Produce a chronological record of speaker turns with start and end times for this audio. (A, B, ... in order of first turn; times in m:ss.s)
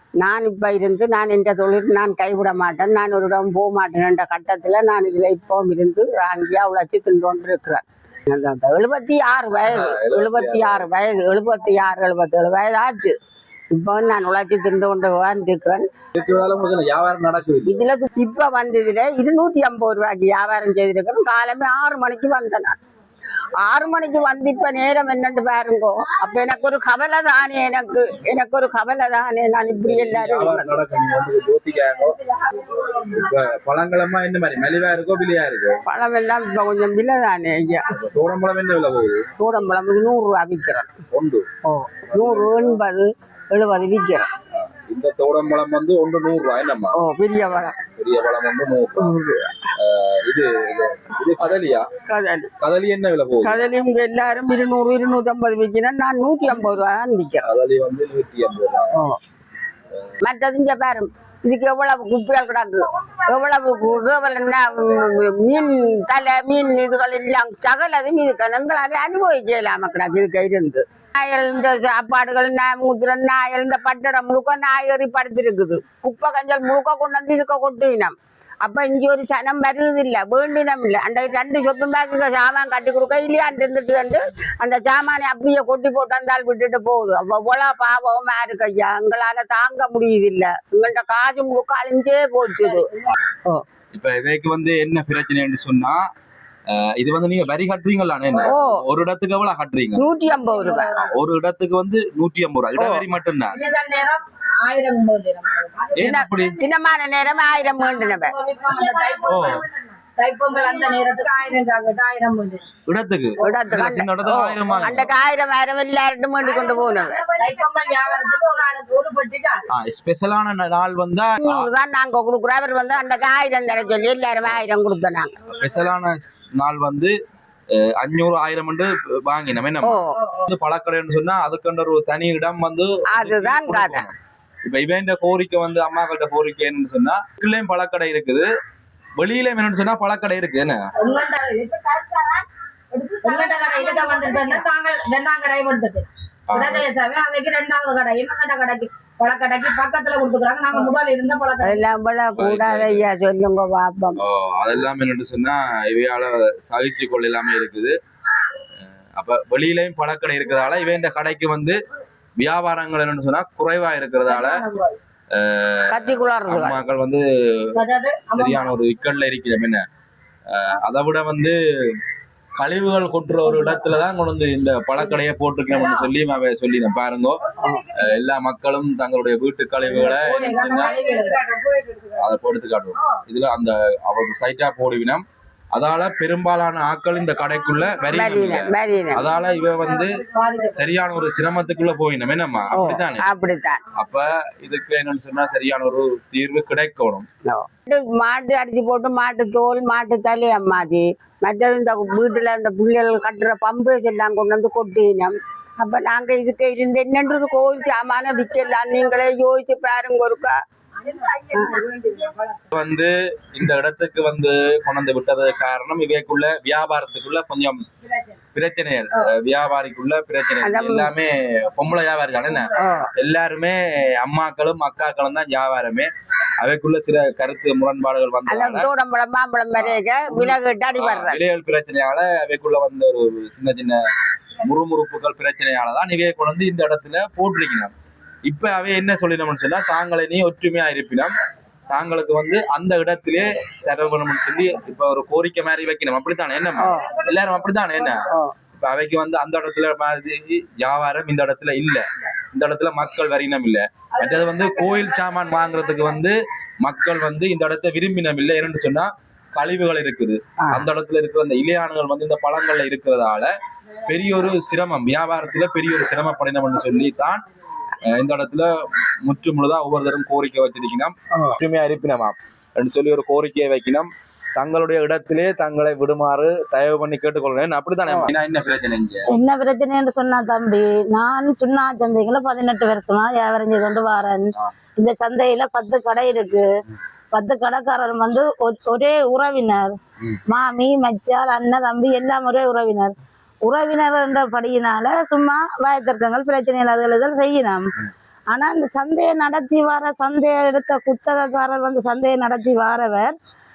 0:00.2-0:13.2 A
0:09.6-0:10.9 B
0:13.7-0:15.9 A
0:16.2-0:17.8 B
0:17.7-0:22.8 A
0:23.6-0:30.7 A
0:29.8-0:32.2 B
0:32.9-0:35.8 B
0:35.9-0:37.9 A
0:37.9-0:39.3 B
0:39.4-0:40.9 A
0:41.1-0:41.5 B
0:41.7-0:44.3 A
0:42.1-0:42.8 B
0:44.6-0:47.0 B
0:47.0-0:47.8 A
0:48.0-0:49.2 B
0:49.0-0:49.5 A
0:49.8-0:51.9 B
0:52.1-0:52.5 A
0:52.6-0:53.6 B
0:53.4-0:57.4 A
0:57.4-0:59.0 B
1:00.2-1:32.9 A
1:33.9-1:36.1 B
1:36.7-1:40.1 B
1:38.4-1:38.8 A
1:40.0-1:41.1 A
1:41.1-1:43.6 B
1:42.8-1:43.0 A
1:43.5-1:46.1 C
1:46.0-1:46.6 B
1:46.0-1:48.3 A
1:48.2-1:52.6 C
1:49.2-1:49.7 B
1:52.9-1:55.1 B
1:53.4-1:57.3 A
1:57.3-1:59.7 C
1:59.7-2:01.7 B
2:01.4-2:05.4 A
2:05.6-2:07.2 B
2:07.7-2:18.5 B
2:09.8-2:10.2 A
2:13.1-2:14.0 A
2:19.2-2:20.9 B
2:21.0-2:31.8 C
2:26.5-2:26.9 B
2:31.6-2:34.2 A
2:32.4-2:33.0 B
2:34.2-2:38.0 B
2:39.2-2:41.8 B
2:42.4-2:44.6 B
2:44.3-2:45.0 C
2:45.3-2:49.9 B
2:45.9-2:46.8 A
2:47.8-2:48.7 C
2:50.5-2:52.0 B
2:52.6-2:57.4 B
2:58.0-3:01.0 B
3:00.0-3:02.1 C
3:02.2-3:13.2 B
3:08.1-3:09.2 A
3:10.3-3:10.8 C
3:12.7-3:13.8 A
3:14.0-3:17.3 B
3:17.5-3:30.6 A
3:31.5-3:31.8 A
3:31.9-3:32.3 C
3:32.7-3:37.8 B
3:38.5-3:48.9 B
3:40.6-3:41.1 A
3:42.8-3:43.1 A
3:48.5-3:51.4 A
3:49.7-3:54.0 B
3:54.6-3:57.9 B
3:58.5-4:01.3 B
4:01.9-4:23.5 B
4:06.8-4:07.1 A
4:24.1-4:27.4 B
4:28.0-4:28.7 B
4:29.2-4:39.3 B
4:39.3-4:46.7 D
4:47.3-4:50.0 D
4:50.5-4:53.1 D
4:53.6-4:57.9 D
4:58.5-5:03.4 D